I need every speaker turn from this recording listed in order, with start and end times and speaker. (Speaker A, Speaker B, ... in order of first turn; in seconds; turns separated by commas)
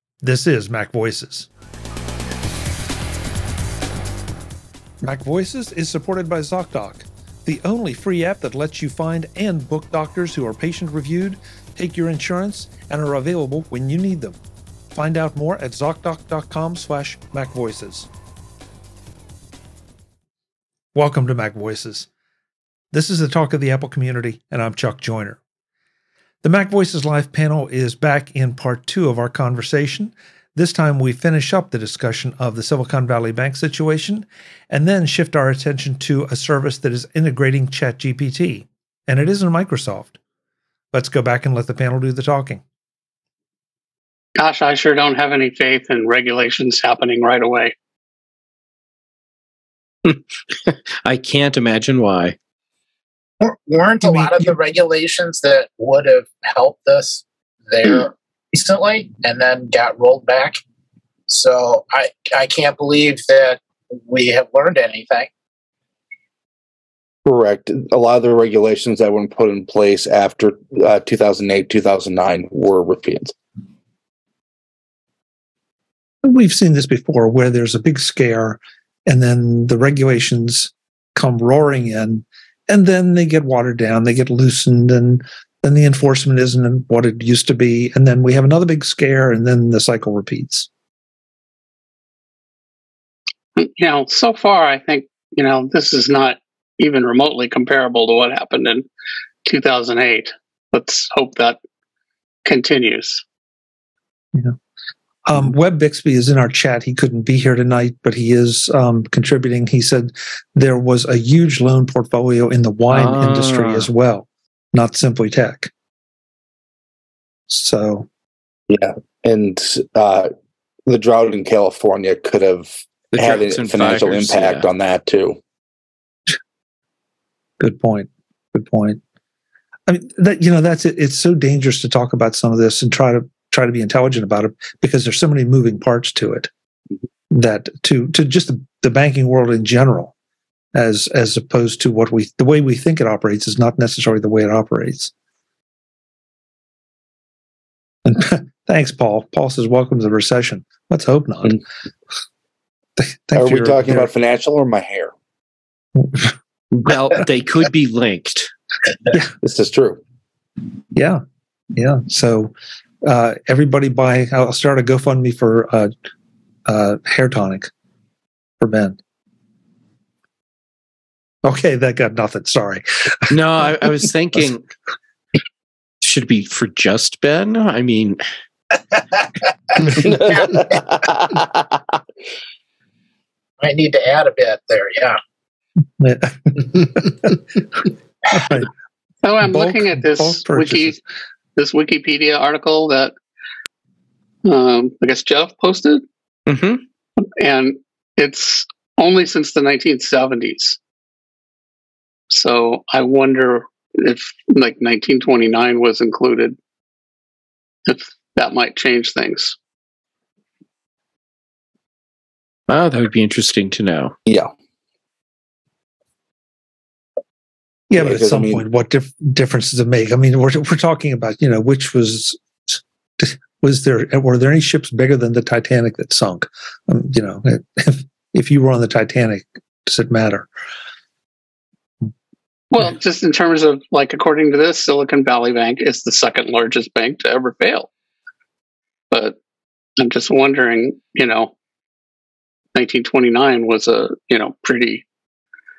Speaker A: 0.2-1.5, Speaker A: 5.0-14.4, Speaker A: 14.9-18.1, Speaker A: 20.9-22.1, Speaker A: 22.9-25.4, Speaker A: 26.4-40.1, Speaker A: 40.9-42.6, Speaker B: 44.4-47.7, Speaker C: 50.0-52.4, Speaker D: 53.4-60.6, Speaker A: 54.0-54.4, Speaker D: 61.3-65.3, Speaker E: 67.2-73.3, Speaker A: 76.2-90.7, Speaker B: 93.5-98.8, Speaker B: 99.4-101.6, Speaker B: 102.4-103.2, Speaker A: 105.2-115.7, Speaker C: 112.9-113.9, Speaker A: 117.5-118.1, Speaker E: 118.7-120.3, Speaker E: 120.9-125.4, Speaker C: 123.1-124.6, Speaker A: 127.6-129.0, Speaker A: 129.9-136.5, Speaker A: 137.3-140.1, Speaker A: 140.7-145.1, Speaker A: 148.1-151.6, Speaker A: 153.0-154.1, Speaker E: 153.3-155.1, Speaker A: 156.0-156.3, Speaker C: 156.7-158.5, Speaker E: 159.4-160.0, Speaker A: 160.9-161.2, Speaker A: 161.8-165.9, Speaker A: 166.7-167.7, Speaker A: 168.6-169.0, Speaker A: 171.4-173.8, Speaker C: 173.3-174.6, Speaker C: 176.0-178.2, Speaker E: 180.0-181.8, Speaker D: 180.2-180.6, Speaker D: 183.6-185.2, Speaker A: 186.0-187.4, Speaker A: 188.3-188.7, Speaker B: 189.2-191.0, Speaker A: 189.4-191.0, Speaker B: 191.6-193.1, Speaker B: 194.4-196.0, Speaker C: 196.5-196.8, Speaker B: 197.4-200.8, Speaker B: 202.3-206.6, Speaker B: 207.9-209.6, Speaker C: 212.7-214.1, Speaker E: 214.2-214.5, Speaker A: 217.9-230.5, Speaker E: 217.9-218.6, Speaker B: 232.7-237.9, Speaker B: 239.1-239.4, Speaker B: 240.0-241.5, Speaker B: 242.7-245.0